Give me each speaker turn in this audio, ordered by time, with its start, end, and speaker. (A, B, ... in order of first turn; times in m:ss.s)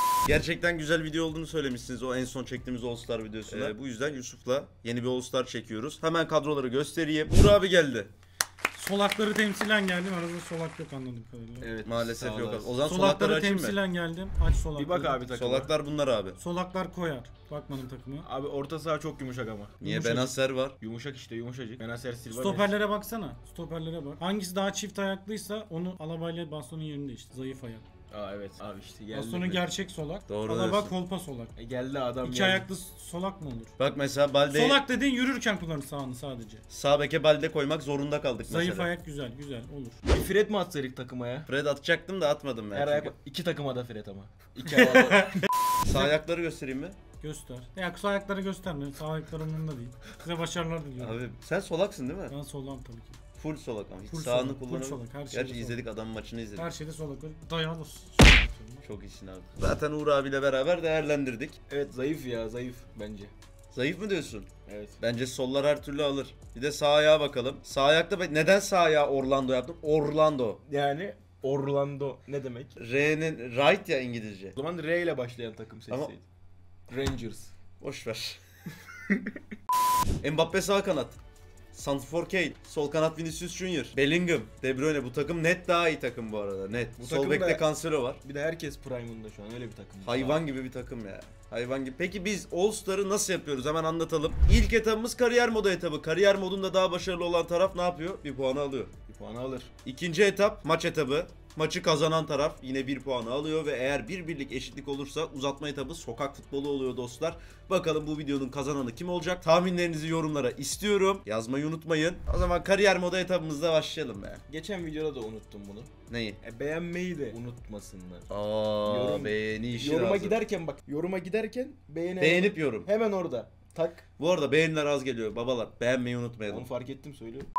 0:00.3-0:08.1 A
0:08.7-0:11.7 B
0:11.6-0:12.8 C
0:11.8-0:13.8 A
0:12.8-0:15.2 B
0:14.8-0:15.7 C
0:15.3-0:16.4 A
0:16.4-0:18.3 B
0:18.2-0:22.8 C
0:19.8-0:20.8 A
0:22.3-0:27.8 B
0:28.1-0:29.7 C
0:29.1-0:31.5 B
0:30.3-0:30.9 A
0:31.6-0:32.7 C
0:32.2-0:33.7 B
0:33.8-0:34.8 A
0:34.5-0:36.6 B
0:36.7-0:38.9 A
0:38.5-0:40.0 B
0:40.1-0:41.5 C
0:41.5-0:43.1 A
0:42.7-0:45.4 C
0:45.8-0:47.0 A
0:47.2-0:51.2 B
0:51.0-0:52.4 A
0:52.3-0:53.2 B
0:53.4-0:56.7 A
0:54.1-0:55.8 B
0:56.6-0:58.8 B
0:58.8-1:01.6 A
1:01.7-1:03.3 C
1:03.7-1:10.6 A
1:04.7-1:05.0 C
1:10.7-1:12.8 C
1:12.8-1:14.6 A
1:14.6-1:16.3 C
1:16.9-1:17.5 C
1:17.8-1:18.4 A
1:19.1-1:19.4 C
1:20.2-1:21.2 A
1:21.7-1:28.2 A
1:27.0-1:27.6 C
1:28.2-1:30.4 C
1:30.0-1:38.9 A
1:39.1-1:39.7 C
1:39.8-1:54.4 A
1:54.5-1:58.3 C
1:56.1-1:56.4 A
1:58.3-2:00.4 A
1:58.8-2:04.0 C
2:02.2-2:02.9 A
2:04.2-2:06.7 A
2:06.5-2:07.5 C